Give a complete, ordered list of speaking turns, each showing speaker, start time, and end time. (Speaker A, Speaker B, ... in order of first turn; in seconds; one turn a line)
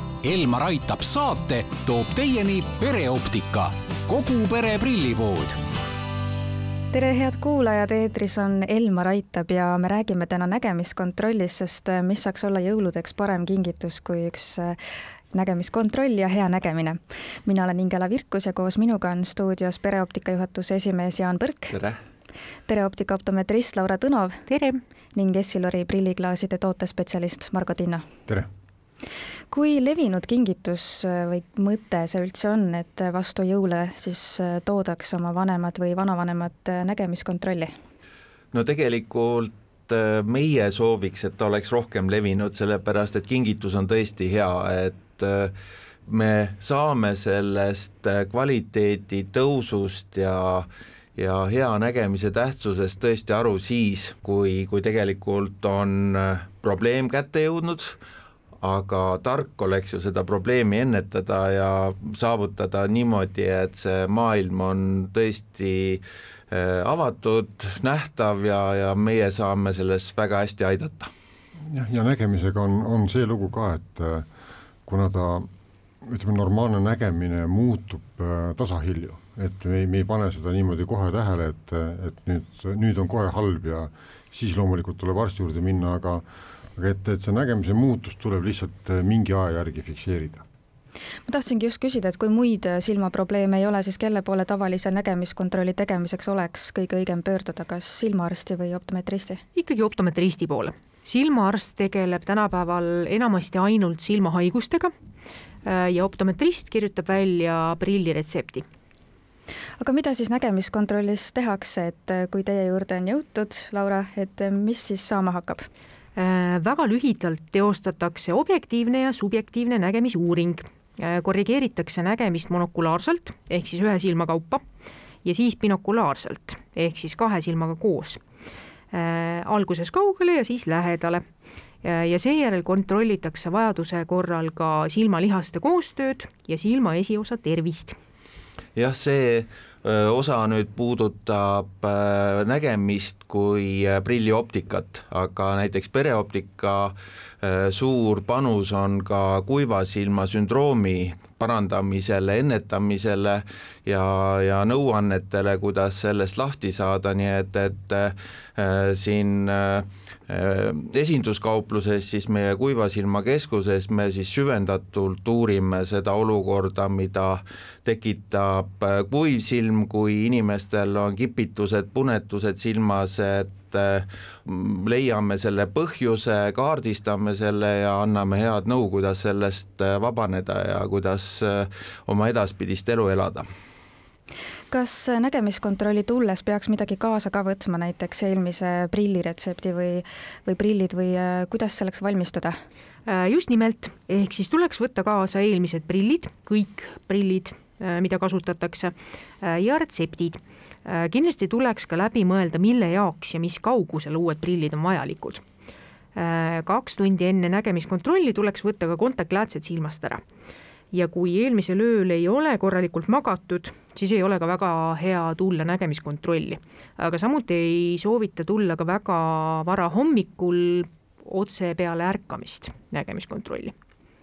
Speaker A: 0.2-5.6
Speaker B: 6.9-14.8
Speaker B: 15.3-21.8
Speaker B: 22.7-24.4
Speaker C: 24.5-24.8
Speaker B: 25.1-28.1
Speaker B: 29.5-37.7
Speaker D: 38.5-45.5
Speaker D: 46.1-58.0
Speaker D: 58.6-71.1
Speaker E: 71.7-74.3
Speaker E: 74.9-75.5
Speaker E: 76.0-86.2
Speaker E: 86.8-90.4
Speaker B: 91.3-99.4
Speaker C: 99.5-104.9
Speaker C: 105.7-108.7
Speaker B: 109.8-115.7
Speaker C: 116.2-124.6
Speaker C: 125.2-128.2
Speaker C: 128.9-131.2
Speaker C: 131.8-138.0
Speaker D: 138.8-183.5
Speaker B: 184.7-192.6
Speaker C: 193.1-205.4
Speaker C: 206.2-210.2
Speaker C: 210.9-223.7